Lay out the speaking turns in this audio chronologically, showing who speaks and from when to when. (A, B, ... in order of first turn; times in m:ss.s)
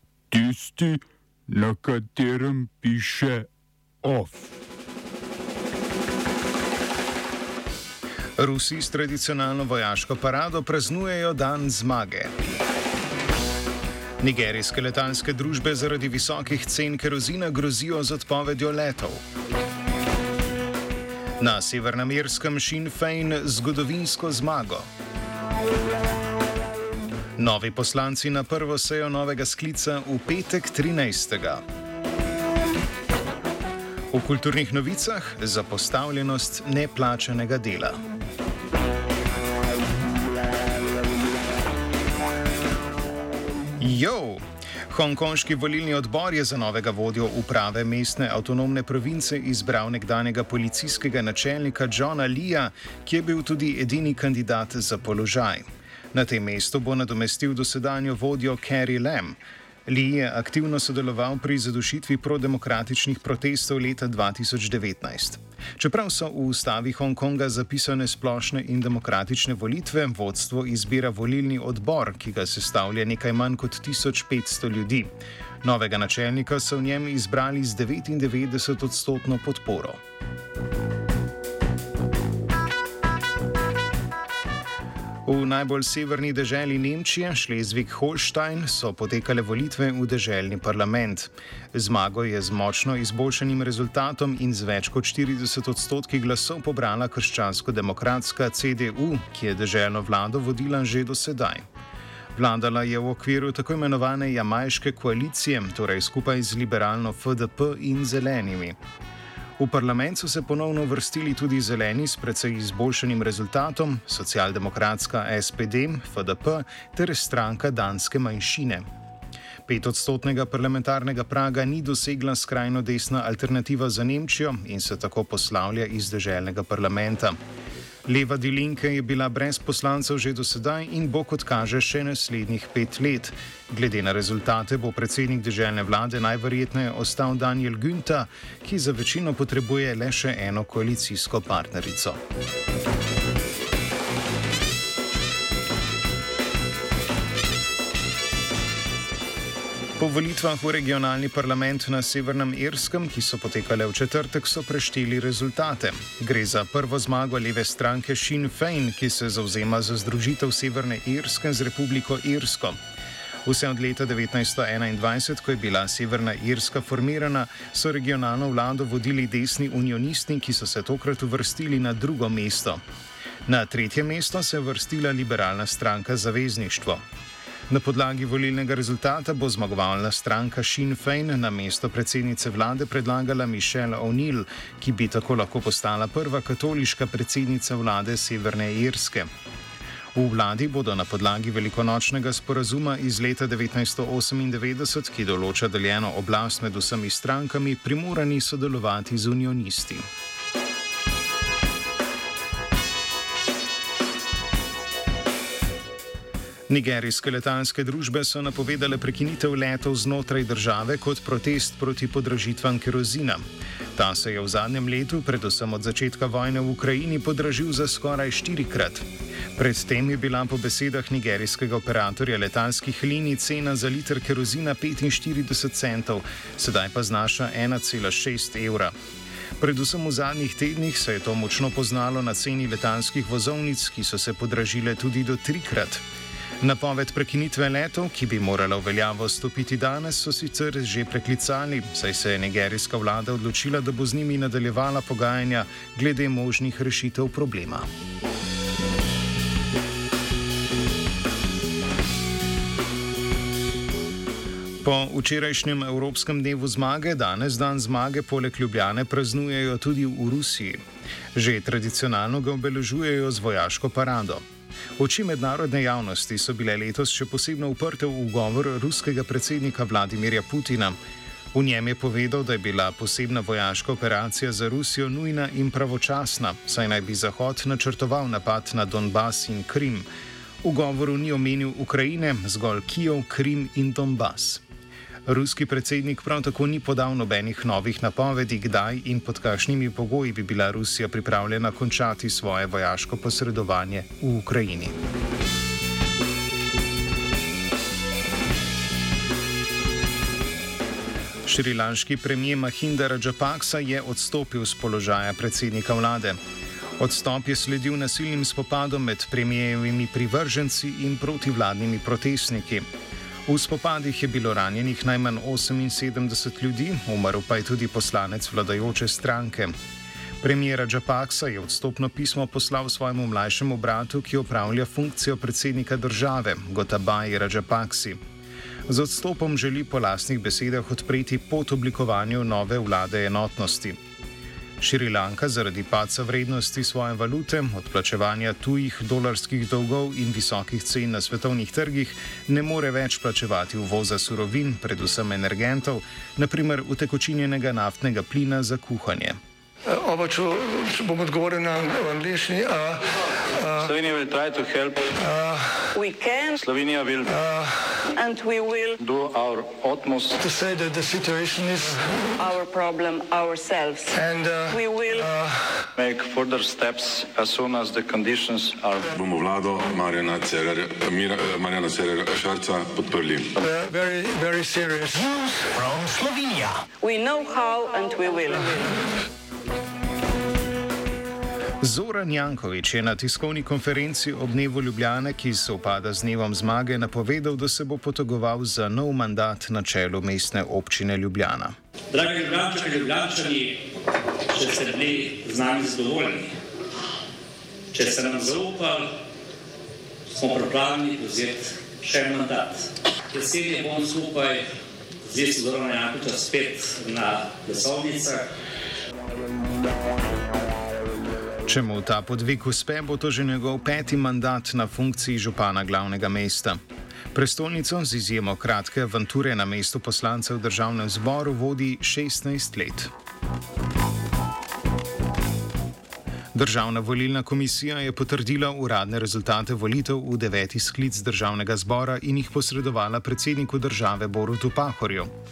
0:00.3-0:03.5 A
0:04.0-0:04.5 A
0:08.4-0:12.3 B
0:14.2-0:19.2 B
0:21.4-0:24.8 B
0:27.4-0:31.6 B
0:34.1-0:38.0 B
0:43.8-1:15.1 B
1:15.6-1:20.0 B
1:25.2-1:41.6 B
1:42.3-1:48.8 B
1:49.6-1:58.8 B
1:59.6-2:07.4 B
2:08.0-2:22.2 B
2:30.0-2:42.8 B
2:43.4-2:52.8 B
2:53.5-2:57.0 B
2:57.7-3:09.3 B
3:10.1-3:20.0 B
3:26.7-3:33.4 B
3:33.9-3:48.9 B
3:49.6-3:56.0 B
3:56.6-4:07.8 B
4:14.8-4:20.8 B
4:21.3-4:24.4 B
4:25.0-4:31.0 B
4:31.5-4:40.1 B
4:40.6-4:44.6 B
4:45.2-4:55.0 B
5:01.4-5:06.4 B
5:07.0-5:12.8 B
5:13.4-5:19.7 B
5:20.4-5:28.2 B
5:28.9-5:34.0 B
5:34.8-5:49.4 B
5:49.9-5:53.0 C
5:53.6-5:53.9 C
5:53.8-5:55.2 D
5:55.2-5:55.8 C
5:55.9-5:56.6 E
5:56.6-5:57.4 D
5:57.2-5:58.0 C
5:58.1-5:59.0 E
5:59.0-6:00.4 D
6:00.4-6:02.2 C
6:02.4-6:05.3 E
6:04.1-6:05.7 C
6:06.0-6:09.1 D
6:09.1-6:13.6 F
6:13.6-6:16.8 C
6:17.0-6:19.0 E
6:21.8-6:31.7 B
6:32.1-6:33.8 G
6:34.5-6:36.5 G
6:37.9-6:39.1 G
6:40.3-6:44.6 G
6:45.2-6:48.5 G
6:51.6-6:56.8 B
6:57.3-7:03.1 B
7:06.5-7:15.3 B